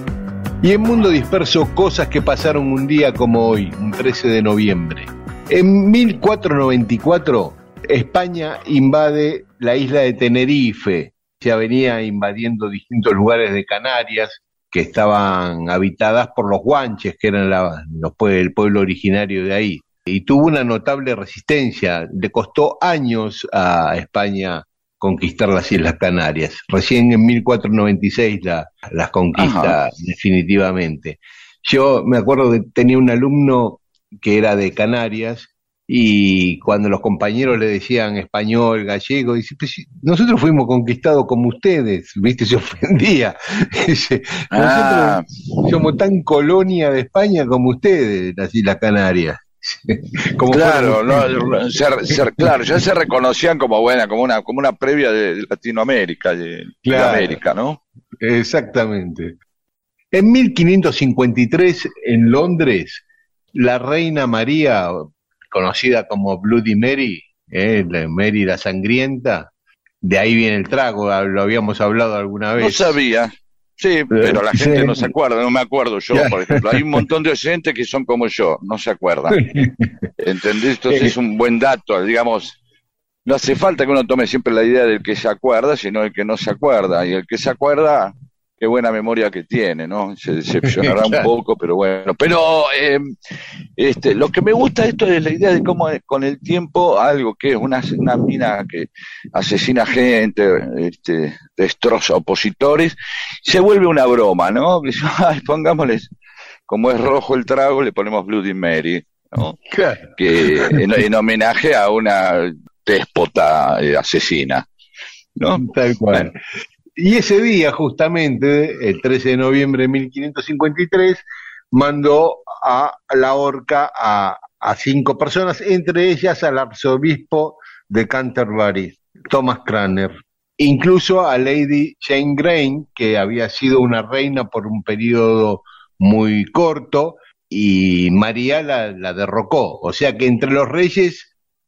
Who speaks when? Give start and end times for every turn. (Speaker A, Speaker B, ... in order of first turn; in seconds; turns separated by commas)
Speaker A: 0.6-51.6, Speaker B: 29.4-29.8, Speaker B: 44.5-45.2, Speaker B: 50.5-57.8, Speaker A: 52.1-52.5, Speaker A: 56.8-57.4, Speaker A: 58.2-59.4, Speaker A: 60.1-63.0, Speaker A: 63.5-69.5, Speaker A: 70.0-73.0, Speaker B: 72.6-79.4, Speaker A: 74.1-75.1, Speaker A: 76.1-76.8, Speaker A: 79.3-79.9, Speaker B: 80.2-82.6, Speaker B: 83.2-93.1, Speaker A: 90.7-91.3, Speaker B: 93.8-106.1, Speaker B: 106.7-109.6, Speaker A: 109.7-110.9, Speaker B: 110.2-114.7, Speaker B: 115.4-116.3, Speaker A: 115.6-116.3, Speaker A: 117.0-141.3